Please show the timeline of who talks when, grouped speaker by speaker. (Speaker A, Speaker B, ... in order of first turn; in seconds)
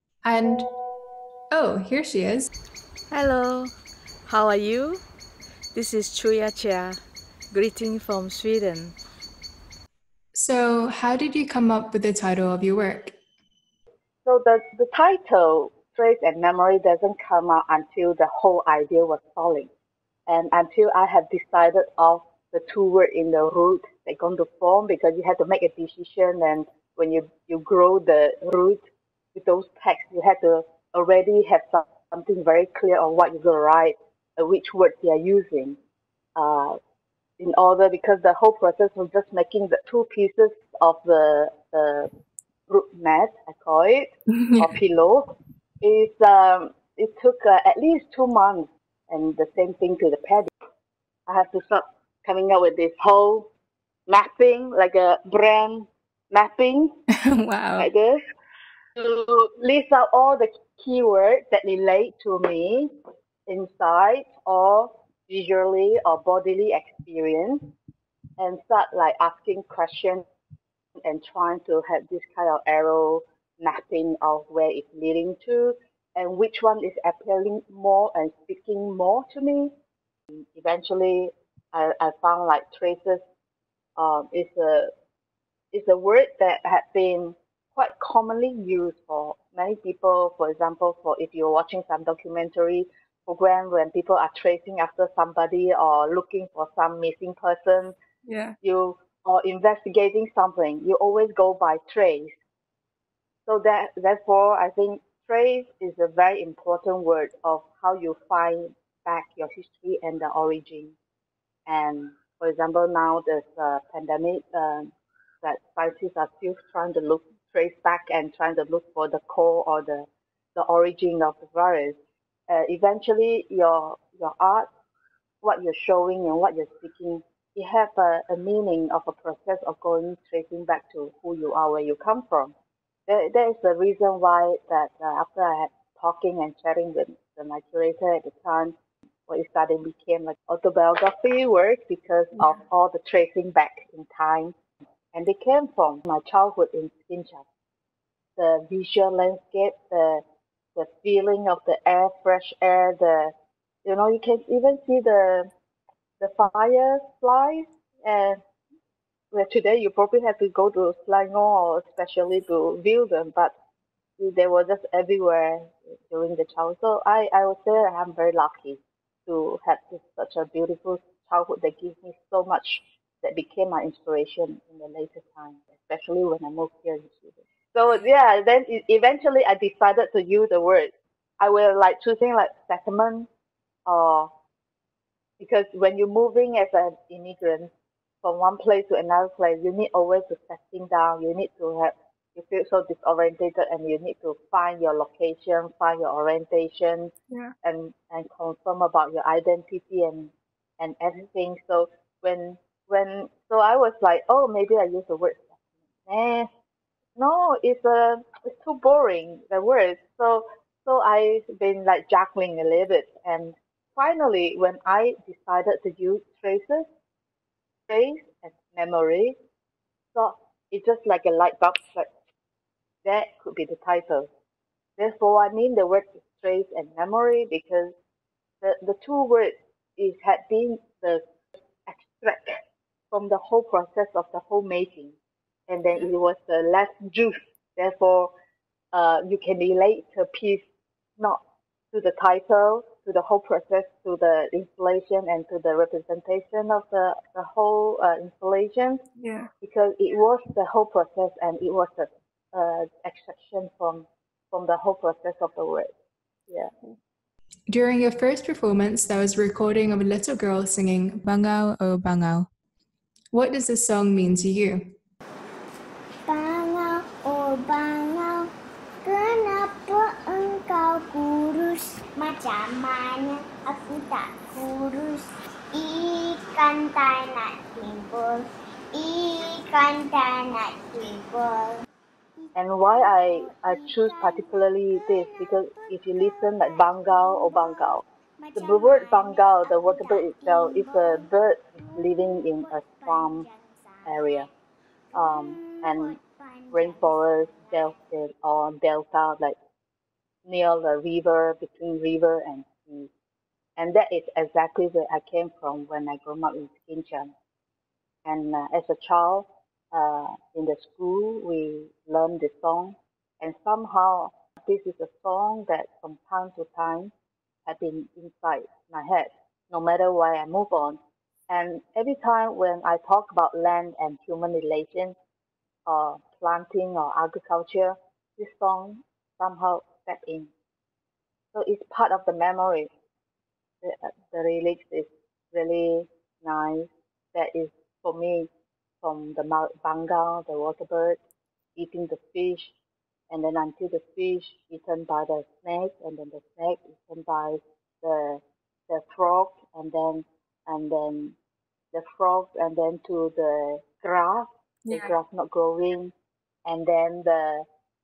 Speaker A: 0.2-0.7, 1.5-2.5, 10.3-13.2, 44.3-44.6, 57.2-57.9, 98.3-98.5, 249.2-249.5, 257.7-262.5, 263.3-264.9, 354.8-355.1
Speaker B: 3.1-3.7, 4.2-5.0, 5.7-7.0, 7.5-8.9
Speaker C: 14.2-19.7, 20.3-28.8, 29.3-35.8, 36.4-36.8, 37.4-42.1, 42.7-50.5, 51.3-53.5, 54.1-56.9, 57.8-58.2, 59.0-62.9, 63.5-67.7, 68.4-70.2, 71.0-79.7, 80.3-83.2, 84.0-84.9, 85.7-98.0, 98.6-102.3, 103.5-111.0, 111.7-114.9, 115.4-122.0, 122.5-124.7, 125.4-132.5, 133.1-138.8, 139.3-144.5, 145.1-147.4, 148.4-150.2, 150.7-153.3, 153.8-155.5, 156.2-158.4, 159.3-163.5, 164.2-183.3, 183.8-184.3, 185.4-187.7, 188.2-197.1, 197.6-206.5, 207.2-216.8, 217.9-219.3, 220.1-222.1, 223.0-224.3, 225.0-227.9, 228.6-231.2, 231.8-232.6, 233.1-235.2, 235.7-238.3, 238.9-240.6, 241.9-249.0, 249.6-255.9, 282.6-288.0, 288.5-293.5, 294.1-294.5, 295.1-296.2, 296.7-299.6, 300.4-303.1, 303.8-307.3, 308.2-317.1, 317.6-325.1, 325.9-330.5, 331.5-332.9, 333.8-338.5, 339.0-341.2, 341.8-342.7, 343.3-351.4, 351.9-356.1, 356.6-357.6
Speaker D: 266.2-268.5, 269.0-281.8, 282.4-294.5, 295.1-297.9